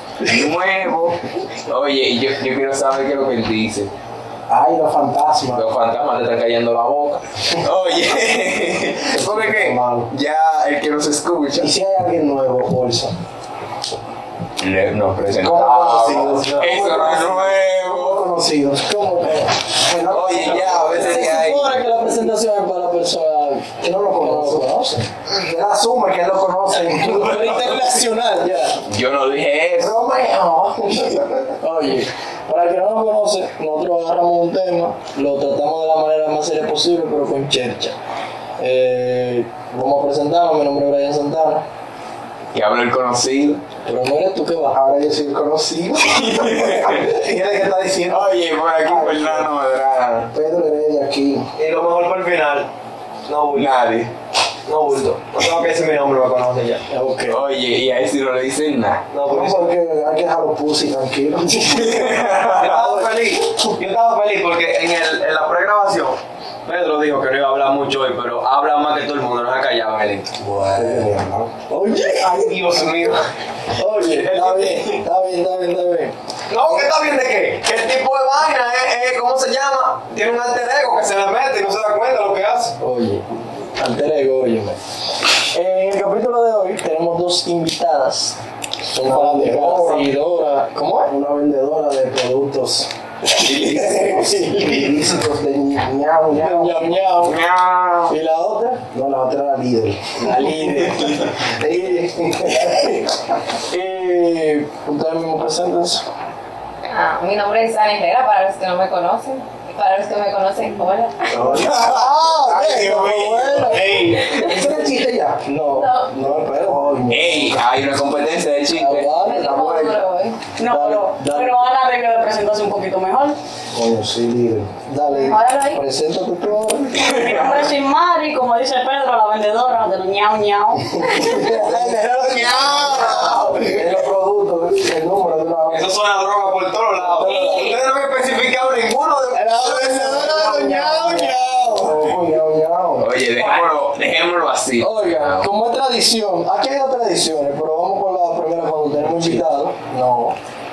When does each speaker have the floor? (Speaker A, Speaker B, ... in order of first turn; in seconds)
Speaker A: 0.2-0.5, 18.9-19.6, 20.9-25.0, 26.7-28.8, 31.6-37.9, 38.6-41.6, 43.8-44.8, 56.9-57.4, 62.7-63.1, 70.8-71.0, 71.7-72.6, 73.7-76.1, 82.8-83.2, 83.8-84.8, 85.5-91.1, 93.3-95.0, 96.3-97.4, 98.1-98.8, 100.2-103.0, 103.7-106.0, 111.7-114.2, 115.5-117.0, 118.7-119.5, 120.6-121.6, 124.9-127.1, 131.0-134.1, 137.2-137.7, 139.3-142.1, 144.8-150.3
Speaker B: 0.2-3.9, 5.5-11.7, 14.6-18.2, 20.1-21.8, 28.9-29.9, 42.5-43.6, 46.0-47.1, 48.1-50.3, 53.5-54.1, 57.3-59.0, 61.6-62.9, 93.3-94.3, 97.2-98.1, 111.3-114.6, 117.1-119.9, 127.0-127.5, 143.0-145.5
Speaker C: 4.5-5.7, 9.1-10.1, 11.6-13.2, 15.3-19.0, 19.7-21.3, 23.8-27.8, 29.8-31.6, 44.7-49.5, 50.3-51.5, 59.2-61.9, 70.7-71.5, 89.0-90.2, 91.1-92.9, 93.8-97.0, 98.9-100.3, 101.0-102.9, 111.3-112.0, 114.3-115.4, 116.1-117.6, 123.7-124.8, 131.0-135.8, 137.0-137.4, 140.7-143.1, 149.0-149.4
Speaker D: 51.5-52.7, 53.2-53.9, 54.7-56.8, 59.1-59.7, 62.4-70.4, 72.0-73.2, 74.0-75.0, 76.5-82.8, 132.3-133.7, 135.7-141.2
Speaker E: 106.9-111.3, 115.7-116.1, 119.2-120.4, 125.1-125.8
Speaker F: 120.6-123.4, 127.0-130.9, 137.2-137.8, 143.4-143.7